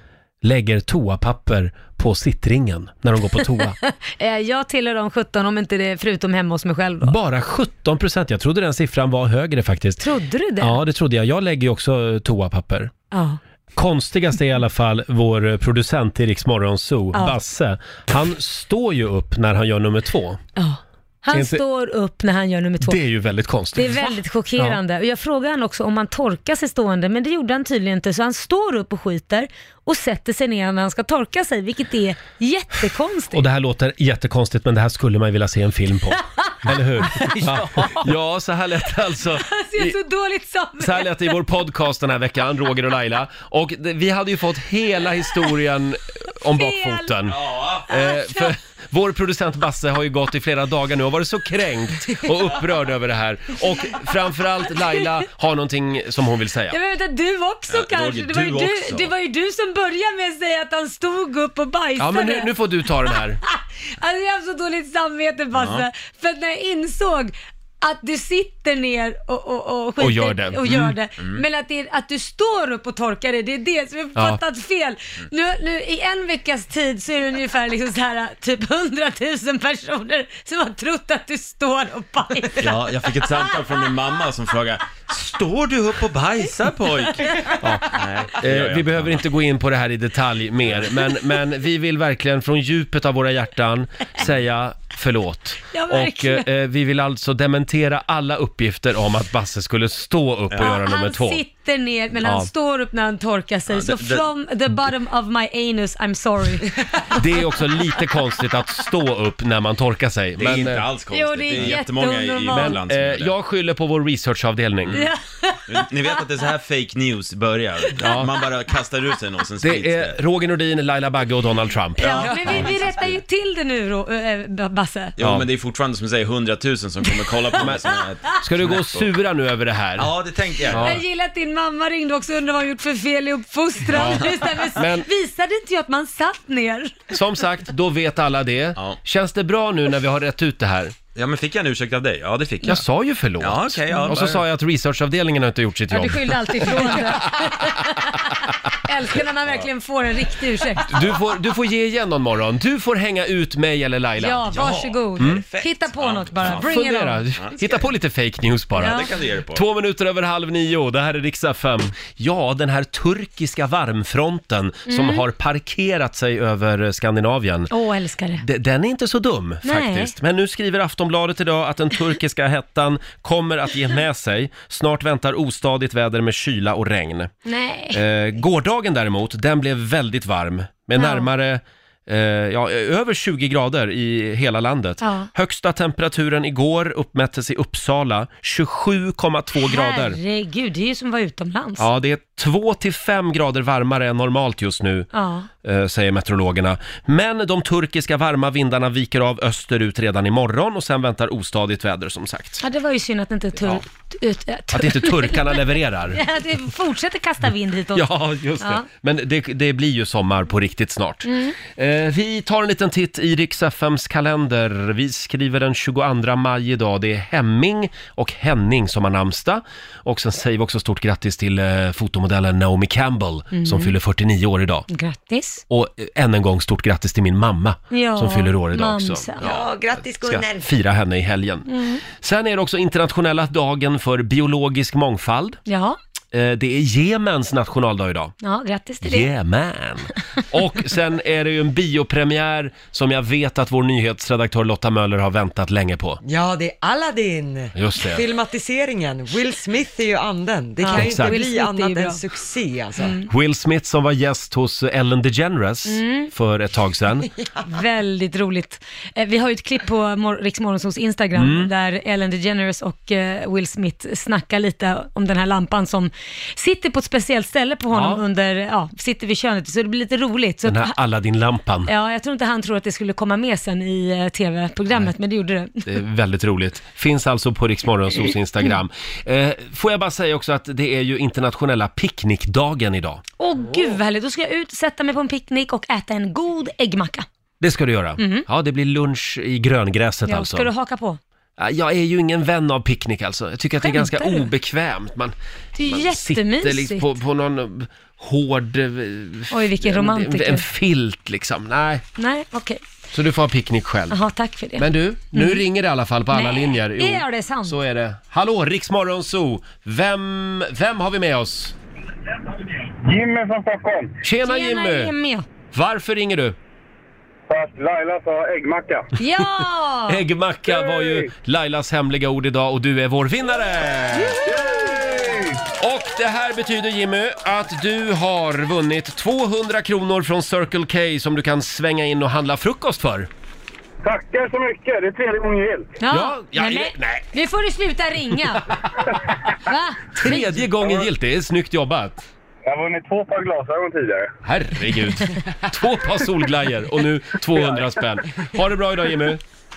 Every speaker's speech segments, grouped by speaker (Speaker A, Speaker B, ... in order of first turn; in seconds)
Speaker A: 0.4-3.8, 7.0-10.0, 10.6-12.9, 13.8-20.4, 21.3-21.6, 22.8-24.8, 33.3-40.0, 40.8-56.8, 62.0-63.4, 70.0-70.9, 74.2-74.4, 87.6-101.4, 102.2-102.5, 107.1-110.9, 112.5-115.0, 118.0-118.3, 119.6-122.7, 125.2-125.5, 127.6-130.1, 130.7-131.0, 133.9-135.1, 137.1-140.9, 142.6-147.6, 150.9-154.5, 155.2-155.4, 156.6-167.7, 168.4-177.3, 177.9-190.2, 191.8-195.1, 195.6-202.6, 204.7-206.2, 207.9-224.9, 225.7-235.6, 236.3-238.3, 239.0-246.2, 247.7-248.2, 250.9-251.3, 253.3-257.3, 261.4-261.7, 267.9-268.2, 270.6-271.9, 275.9-283.2, 287.6-290.7, 291.6-302.0, 303.1-304.2, 304.8-311.7, 314.2-315.1, 315.7-316.6, 320.1-324.4, 325.8-333.3, 336.1-337.3, 340.2-342.2, 344.4-349.4
Speaker B: 3.3-7.2, 10.0-10.8, 13.1-13.4, 20.6-23.0, 23.7-33.5, 36.5-38.1, 39.4-41.4, 46.5-47.1, 47.9-48.5, 56.7-62.5, 63.1-82.9, 95.7-96.5, 100.6-106.7, 111.1-112.8, 114.9-116.2, 122.0-125.2, 130.7-137.1, 143.9-144.2, 145.9-151.0, 154.2-157.2, 158.8-159.2, 164.9-165.2, 167.7-168.4, 169.6-170.1, 177.4-178.0, 181.0-181.3, 185.0-185.3, 189.6-191.9, 195.1-195.5, 202.6-208.8, 211.2-211.6, 223.5-223.9, 224.9-225.6, 227.9-229.5, 231.7-232.0, 235.7-236.0, 238.4-239.3, 250.8-252.2, 253.0-253.3, 255.9-256.3, 257.6-270.9, 271.9-276.0, 283.4-287.2, 288.2-288.5, 290.2-291.2, 293.8-294.5, 295.8-297.1, 299.5-300.6, 302.2-302.8, 304.1-305.6, 306.3-307.8, 314.4-315.4, 319.2-320.2, 336.0-338.7, 339.6-340.6
Speaker C: 47.4-47.8, 57.7-59.1, 65.5-65.8, 82.6-87.2, 87.9-89.2, 103.7-104.2, 110.4-113.3, 115.7-120.2, 122.0-123.2, 125.2-129.1, 130.0-131.0, 141.1-142.8, 143.4-144.4, 154.5-156.7, 157.3-157.9, 158.8-159.6
Speaker D: 229.4-230.7, 246.2-253.1
Speaker E: 313.1-314.1, 317.5-319.1, 320.7-321.3, 324.4-325.6, 334.0-335.9, 340.8-341.1, 342.6-344.3